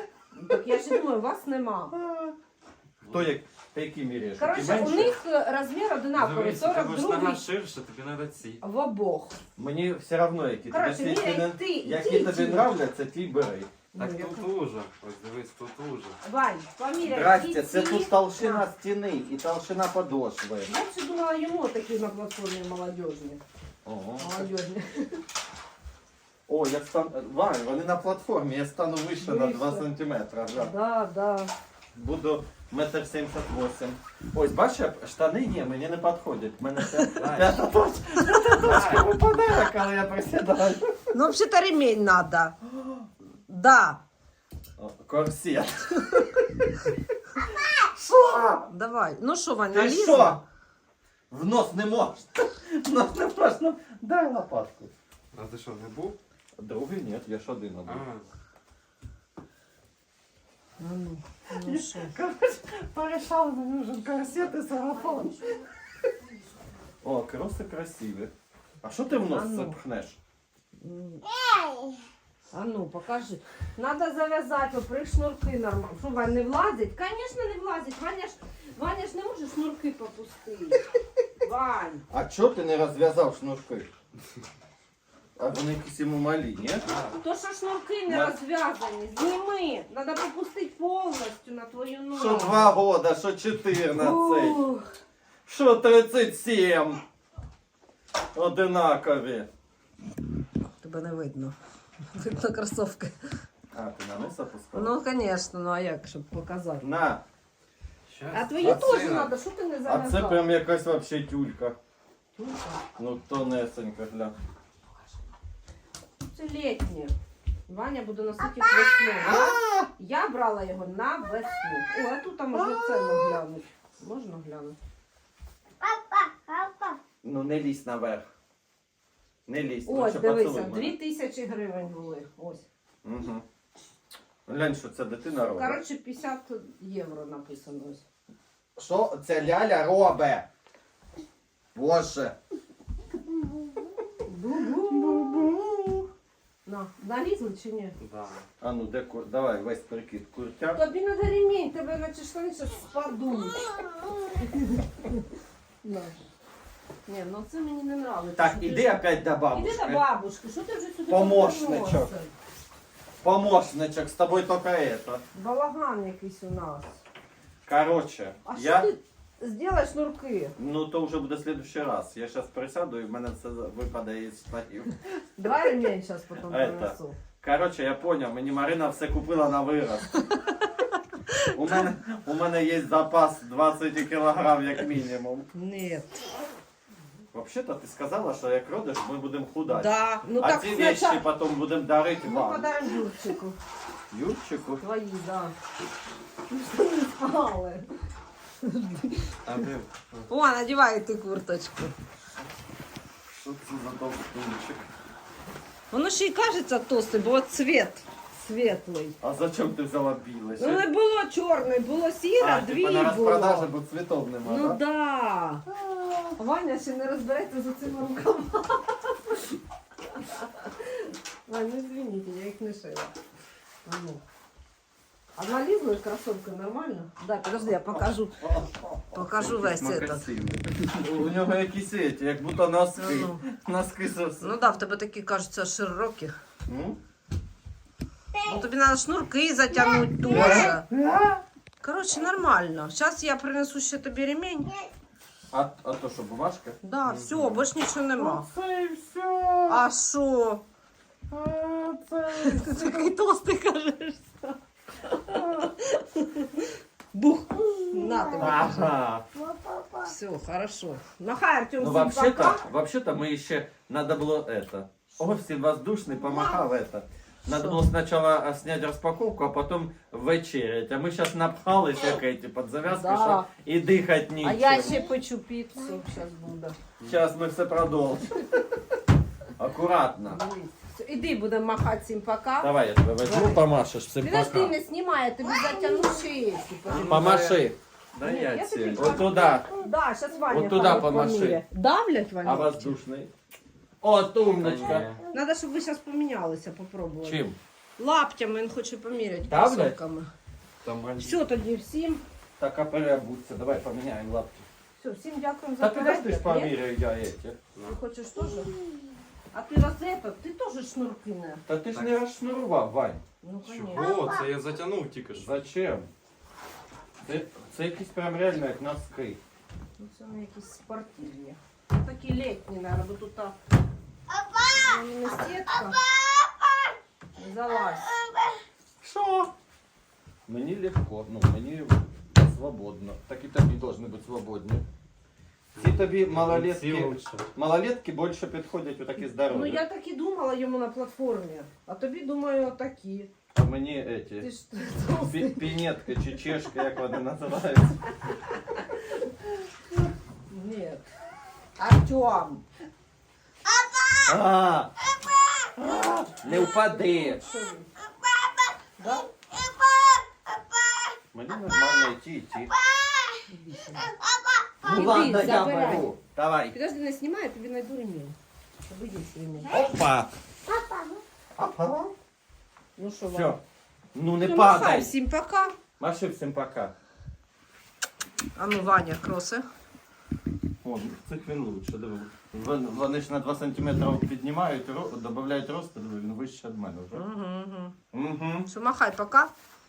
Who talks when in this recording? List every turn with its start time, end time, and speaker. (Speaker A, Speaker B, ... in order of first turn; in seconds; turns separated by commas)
Speaker A: 0.3-1.9, Speaker B: 1.9-2.4, Speaker C: 3.0-3.3, Speaker B: 3.1-5.2, Speaker A: 4.4-7.4, Speaker C: 6.1-8.6, Speaker A: 8.6-9.4, Speaker B: 9.6-13.7, Speaker A: 10.7-12.7, Speaker A: 13.9-14.5, Speaker C: 14.0-16.2, Speaker A: 16.2-18.6, Speaker B: 17.0-20.7, Speaker A: 20.7-23.4, Speaker B: 23.8-24.5, Speaker A: 24.2-25.2, Speaker B: 26.5-30.7, Speaker A: 29.2-29.9, Speaker A: 30.5-31.5, Speaker B: 31.9-41.1, Speaker A: 36.8-37.2, Speaker C: 37.1-37.5, Speaker A: 38.3-38.6, Speaker C: 38.6-39.1, Speaker A: 41.1-42.5, Speaker A: 43.5-44.0, Speaker B: 44.8-46.2, Speaker A: 46.0-46.9, Speaker B: 47.6-48.7, Speaker A: 48.6-50.4, Speaker B: 49.7-50.4, Speaker B: 51.3-54.9, Speaker C: 55.3-56.2, Speaker B: 56.6-58.0, Speaker C: 57.8-58.2, Speaker A: 60.8-62.1, Speaker B: 61.5-65.5, Speaker B: 67.0-70.2, Speaker A: 69.1-69.8, Speaker A: 70.8-71.2, Speaker A: 72.5-80.8, Speaker A: 81.4-82.0, Speaker B: 82.1-83.9, Speaker B: 85.4-86.9, Speaker C: 86.8-87.2, Speaker A: 87.2-92.7, Speaker B: 88.1-88.3, Speaker B: 92.2-94.7, Speaker A: 93.9-94.8, Speaker B: 95.5-97.0, Speaker B: 98.3-99.5, Speaker A: 100.8-101.5, Speaker A: 102.1-103.2, Speaker B: 103.7-105.0, Speaker A: 104.7-106.8, Speaker B: 106.8-107.2, Speaker C: 108.1-109.3, Speaker A: 108.3-110.4, Speaker B: 108.6-109.0, Speaker B: 109.8-111.8, Speaker A: 112.3-112.8, Speaker B: 113.0-114.3, Speaker A: 116.3-117.1, Speaker A: 117.7-124.8, Speaker B: 119.2-119.9, Speaker A: 126.5-126.8, Speaker B: 127.2-128.2, Speaker B: 129.5-130.9, Speaker A: 129.8-132.7, Speaker B: 133.0-133.4, Speaker B: 134.5-135.8, Speaker A: 135.5-138.0, Speaker B: 138.8-140.5, Speaker B: 141.7-142.3, Speaker A: 144.2-145.4, Speaker B: 144.9-146.1, Speaker A: 146.6-147.9, Speaker C: 148.0-148.4, Speaker B: 148.6-150.8, Speaker A: 150.7-155.2, Speaker A: 155.8-156.2, Speaker A: 157.1-162.3, Speaker B: 158.4-160.0, Speaker B: 161.1-162.1, Speaker B: 163.2-165.2, Speaker A: 165.3-167.0, Speaker B: 167.7-168.9, Speaker A: 168.4-170.5, Speaker B: 170.6-174.9, Speaker A: 175.3-177.2, Speaker B: 176.5-180.1, Speaker A: 181.3-181.8, Speaker B: 181.5-185.5, Speaker A: 185.5-186.3, Speaker B: 187.3-192.7, Speaker A: 189.7-191.2, Speaker A: 192.2-193.6, Speaker B: 194.1-194.8, Speaker A: 194.8-195.5, Speaker A: 196.5-197.8, Speaker A: 198.6-199.3, Speaker C: 199.4-200.3, Speaker A: 200.3-201.9, Speaker B: 203.3-204.9, Speaker A: 205.9-209.2, Speaker B: 209.2-210.8, Speaker A: 210.6-213.7, Speaker B: 212.4-214.8, Speaker A: 214.4-215.6, Speaker B: 215.7-216.3, Speaker A: 216.4-219.6, Speaker A: 220.1-223.1, Speaker A: 223.8-224.2, Speaker A: 225.3-228.4, Speaker B: 227.8-229.6, Speaker A: 229.1-230.3, Speaker C: 229.4-230.7, Speaker B: 230.7-234.5, Speaker A: 232.9-233.4, Speaker A: 234.4-236.3, Speaker B: 236.7-237.0, Speaker A: 238.4-240.8, Speaker B: 240.3-241.4, Speaker A: 241.8-244.7, Speaker B: 245.5-249.8, Speaker A: 246.8-248.4, Speaker A: 249.7-250.6, Speaker B: 251.3-253.1, Speaker A: 252.4-258.9, Speaker B: 255.3-255.7, Speaker B: 258.4-259.2, Speaker A: 260.0-262.6, Speaker B: 261.8-275.0, Speaker A: 267.5-267.8, Speaker A: 272.8-273.5, Speaker A: 274.4-276.8, Speaker B: 277.0-278.4, Speaker B: 279.6-280.4, Speaker A: 280.3-283.6, Speaker B: 282.6-284.7, Speaker A: 284.2-287.6, Speaker C: 286.9-287.3, Speaker B: 286.9-287.8, Speaker C: 288.2-289.2, Speaker A: 288.2-292.9, Speaker B: 288.9-289.7, Speaker B: 290.5-291.6, Speaker B: 292.4-293.3, Speaker B: 294.0-295.1, Speaker C: 294.6-295.2, Speaker A: 295.3-297.4, Speaker B: 297.2-297.6, Speaker A: 298.0-300.3, Speaker B: 299.5-299.9, Speaker C: 300.8-301.4, Speaker A: 301.2-302.2, Speaker B: 302.6-304.6, Speaker A: 305.0-306.7, Speaker B: 305.8-307.6, Speaker A: 307.8-308.7, Speaker A: 309.5-311.6, Speaker B: 311.7-313.2, Speaker A: 313.4-314.2, Speaker C: 313.6-315.5, Speaker B: 315.3-316.1, Speaker B: 317.2-319.4, Speaker A: 320.0-323.5, Speaker A: 324.7-326.0, Speaker A: 327.4-328.1, Speaker B: 329.0-329.5, Speaker B: 330.5-334.8, Speaker C: 335.7-337.5, Speaker B: 335.8-339.8, Speaker A: 339.4-343.3, Speaker B: 343.5-344.5, Speaker A: 344.4-345.8, Speaker B: 345.1-348.0, Speaker A: 350.5-351.1, Speaker A: 351.8-352.6, Speaker B: 354.2-354.9, Speaker B: 355.8-357.4, Speaker A: 356.4-357.9, Speaker A: 359.0-359.3, Speaker B: 361.3-362.7, Speaker A: 363.5-364.1, Speaker B: 364.8-366.7, Speaker A: 364.8-366.1, Speaker A: 366.7-369.7, Speaker B: 369.7-370.3, Speaker B: 371.6-372.1, Speaker A: 372.9-373.6, Speaker B: 373.3-373.6, Speaker B: 374.1-375.1, Speaker A: 374.4-375.7, Speaker B: 376.0-376.9, Speaker A: 378.6-379.6, Speaker B: 380.8-387.2, Speaker A: 387.1-387.9, Speaker B: 388.1-388.7, Speaker A: 388.7-389.5